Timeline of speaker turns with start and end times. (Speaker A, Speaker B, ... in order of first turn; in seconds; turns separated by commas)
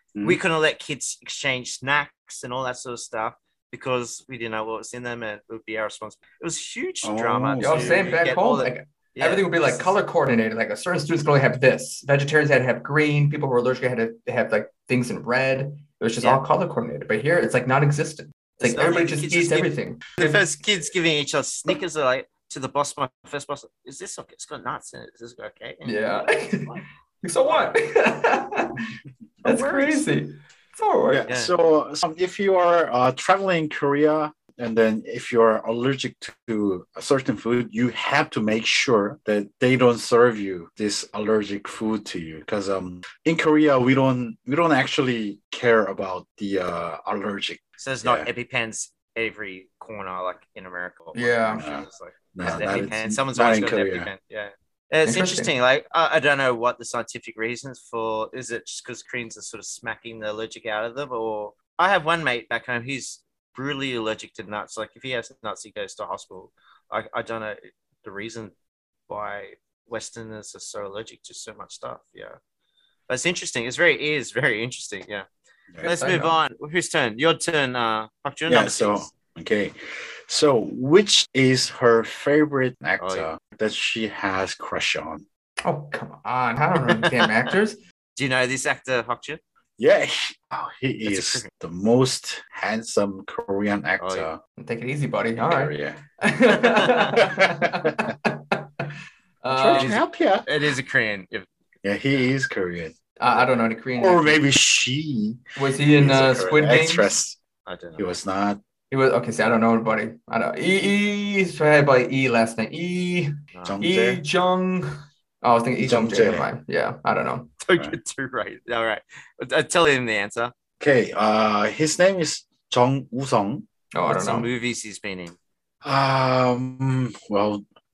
Speaker A: 0.2-10.0, Speaker B: 7.0-8.2, Speaker C: 7.6-20.4, Speaker A: 18.6-26.1, Speaker C: 25.8-28.8, Speaker A: 29.4-30.1, Speaker C: 29.4-31.3, Speaker B: 31.1-48.3, Speaker A: 47.8-68.5, Speaker C: 51.1-51.7, Speaker B: 51.5-54.1, Speaker C: 55.0-55.5, Speaker A: 69.1-72.4, Speaker A: 73.1-75.3, Speaker C: 75.8-76.4, Speaker A: 75.8-79.1, Speaker B: 78.5-85.3, Speaker A: 83.0-83.3, Speaker C: 85.6-87.8, Speaker A: 86.8-87.1, Speaker A: 88.2-89.4, Speaker B: 89.8-94.4, Speaker A: 91.0-91.5, Speaker A: 94.0-94.3, Speaker C: 94.6-98.9, Speaker B: 95.4-96.0, Speaker A: 96.6-97.1, Speaker B: 97.2-98.1, Speaker C: 99.4-100.0, Speaker B: 99.5-100.5, Speaker A: 99.7-101.5, Speaker B: 101.8-103.0, Speaker C: 103.2-104.4, Speaker B: 104.0-107.4, Speaker C: 105.6-107.1, Speaker A: 107.7-108.1, Speaker B: 108.0-108.6, Speaker C: 108.9-114.9, Speaker A: 113.5-113.8, Speaker B: 113.7-114.2, Speaker C: 115.4-117.5, Speaker B: 115.8-116.5, Speaker A: 117.6-120.5, Speaker B: 120.8-123.7, Speaker C: 123.9-124.5, Speaker A: 124.1-125.4, Speaker B: 125.8-127.6